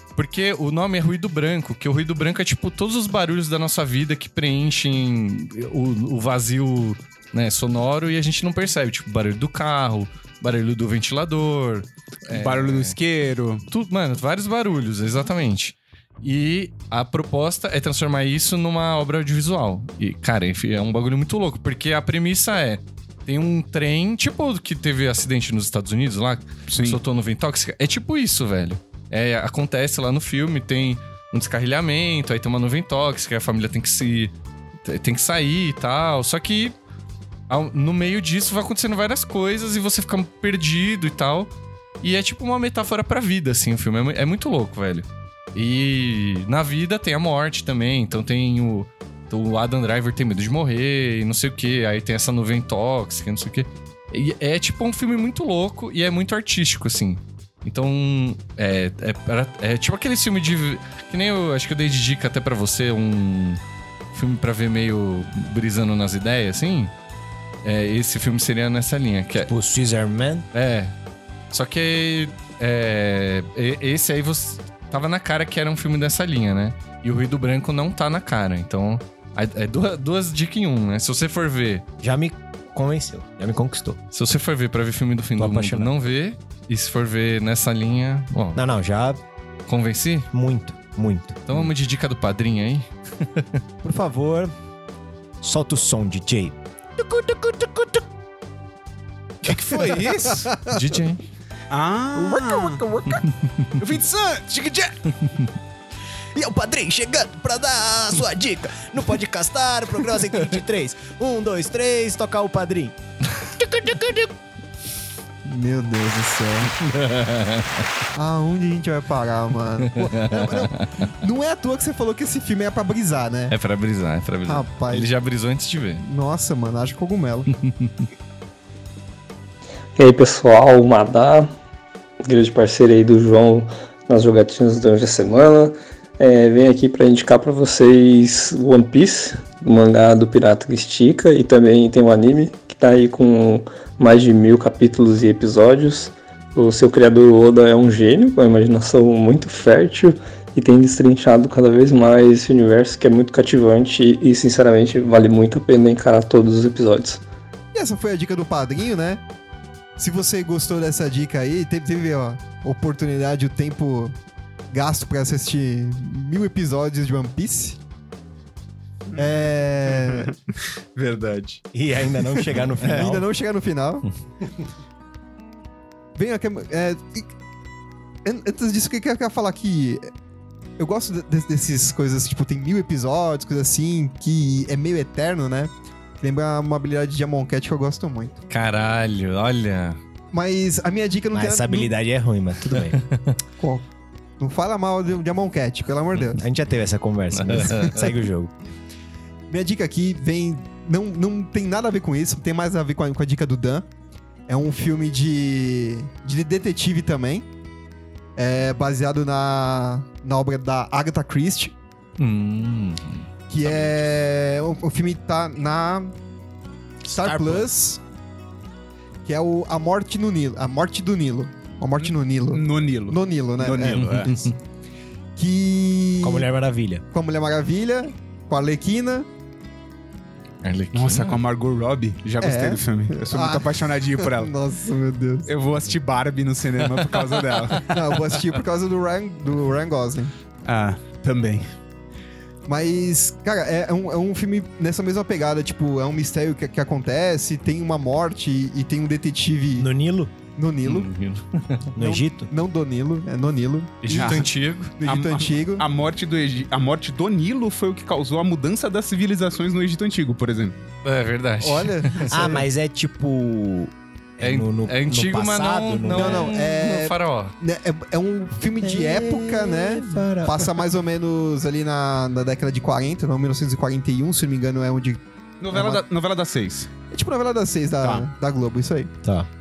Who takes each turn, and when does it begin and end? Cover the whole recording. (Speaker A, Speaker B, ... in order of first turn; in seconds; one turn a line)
Speaker A: 0.2-13.0
Speaker B: 12.3-13.7
Speaker A: 13.7-34.3
Speaker B: 26.7-27.0
Speaker A: 34.8-36.8
Speaker A: 37.5-63.6
Speaker A: 64.1-66.9
Speaker A: 67.6-69.5
Speaker C: 69.4-70.5
Speaker A: 70.5-70.9
Speaker A: 71.5-81.8
Speaker C: 82.0-84.0
Speaker A: 84.1-88.6
Speaker C: 85.4-85.9
Speaker C: 88.5-89.2
Speaker A: 89.7-90.3
Speaker C: 90.3-91.7
Speaker A: 91.5-93.6
Speaker C: 93.8-94.5
Speaker C: 95.4-96.6
Speaker C: 97.1-97.9
Speaker B: 99.4-100.5
Speaker D: 99.7-101.1
Speaker A: 100.7-101.2
Speaker B: 101.7-102.8
Speaker D: 102.2-103.2
Speaker B: 103.8-105.1
Speaker C: 106.3-113.0
Speaker A: 113.4-114.3
Speaker D: 115.5-116.7
Speaker A: 116.7-117.9
Speaker D: 118.1-123.6
Speaker A: 120.0-121.0
Speaker A: 123.5-126.0
Speaker D: 124.5-125.1
Speaker D: 126.0-127.5
Speaker A: 127.5-128.1
Speaker E: 130.0-131.5
Speaker E: 132.2-157.2
Speaker D: 157.7-159.2
Speaker D: 160.0-164.2
Speaker D: 164.7-167.8
Speaker D: 169.2-170.3
Speaker B: 169.9-171.6
Speaker C: 171.7-173.3
Speaker D: 172.4-174.1
Speaker D: 176.2-177.3
Speaker D: 178.2-180.1
Speaker D: 180.8-188.4
Speaker A: 188.5-190.0
Speaker D: 190.3-191.9
Speaker C: 191.3-193.0
Speaker A: 193.0-193.2
Speaker D: 193.6-193.8
Speaker D: 194.4-196.4
Speaker C: 196.4-198.5
Speaker A: 197.4-198.1
Speaker D: 199.5-203.9
Speaker D: 204.5-207.5
Speaker D: 208.4-211.7
Speaker A: 212.2-213.3
Speaker D: 213.5-216.1
Speaker B: 213.6-213.9
Speaker D: 217.1-218.0
Speaker C: 217.1-217.7
Speaker D: 219.2-224.3
Speaker B: 222.0-224.4
Speaker A: 224.0-224.5
Speaker D: 225.4-226.5
Speaker C: 226.2-227.0
Speaker D: 227.1-229.3
Speaker A: 230.6-231.4
Speaker B: 230.9-234.5
Speaker D: 232.4-235.5
Speaker B: 235.5-237.9
Speaker D: 237.8-240.3
Speaker B: 240.7-241.7
Speaker D: 242.7-249.9
Speaker C: 249.8-250.3
Speaker D: 250.6-251.1
Speaker A: 250.8-251.9
Speaker C: 251.9-252.5
Speaker D: 252.0-254.4
Speaker A: 254.0-254.9
Speaker B: 254.1-254.5
Speaker D: 255.0-255.9
Speaker B: 255.0-260.8
Speaker A: 261.0-262.3
Speaker D: 261.6-262.6
Speaker C: 262.3-266.5
Speaker A: 264.4-267.6
Speaker D: 266.1-276.0
Speaker C: 268.8-270.8
Speaker B: 275.6-276.9
Speaker D: 277.1-279.1
Speaker B: 278.0-278.3
Speaker C: 279.2-279.5